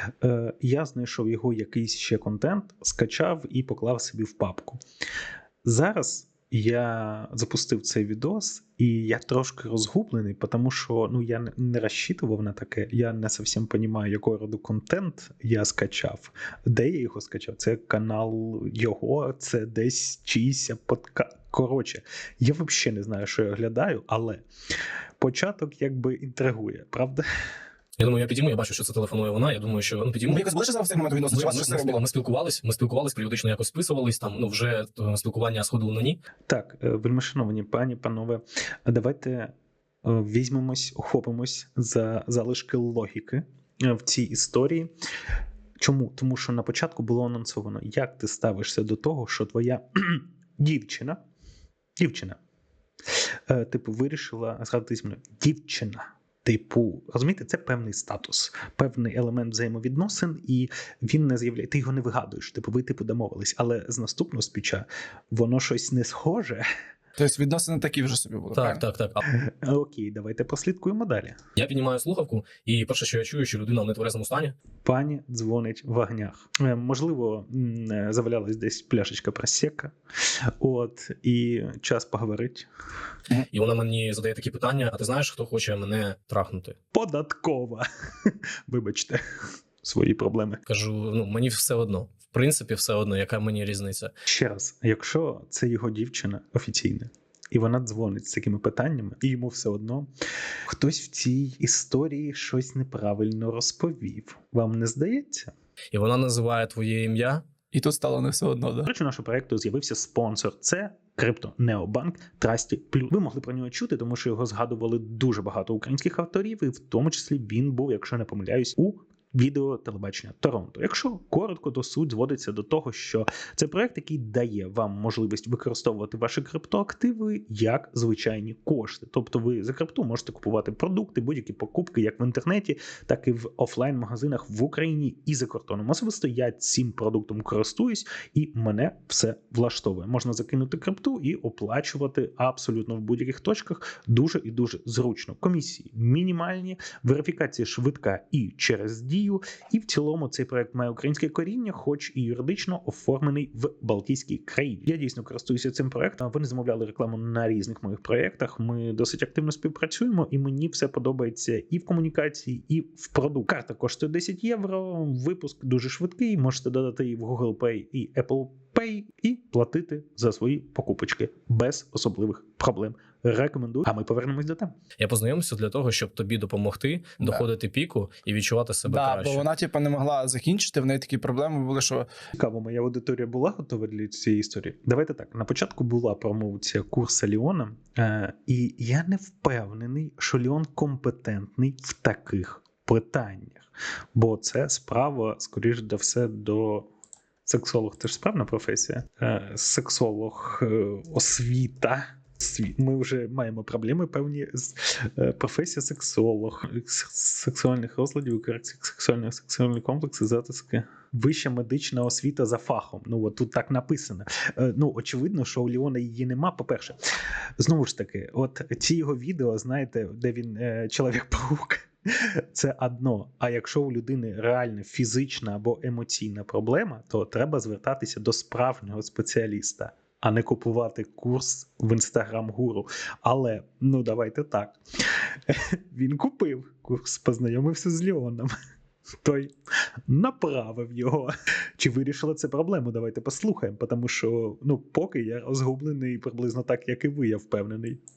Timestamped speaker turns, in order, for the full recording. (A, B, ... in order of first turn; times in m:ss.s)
0:00.2-0:04.8 A
0:05.6-0:24.4 A
0:25.2-0:27.2 A
0:28.0-0:30.4 B
0:30.3-0:32.0 C
0:31.3-0:36.2 B
0:36.5-0:39.5 A
0:40.0-0:44.9 A
0:45.8-0:51.2 A
0:52.0-0:52.4 A
0:53.5-1:06.6 A
1:07.2-1:08.8 C
1:08.5-1:09.2 B
1:09.2-1:11.4 A
1:11.6-1:14.5 B
1:14.8-1:19.9 A
1:20.6-1:22.7 A
1:23.4-1:26.8 B
1:26.9-1:29.2 A
1:29.8-1:30.6 A
1:30.7-1:34.1 B
1:34.2-1:40.1 A
1:40.7-1:45.5 A
1:45.9-1:47.4 B
1:47.7-1:48.9 C
1:48.8-2:54.7 A
2:55.0-2:59.4 B
2:58.8-3:02.0 C
3:02.4-3:16.9 A
3:17.5-3:37.0 A
3:37.6-3:54.8 A
3:55.5-3:58.5 A
3:59.2-3:59.5 A
4:00.1-4:08.0 A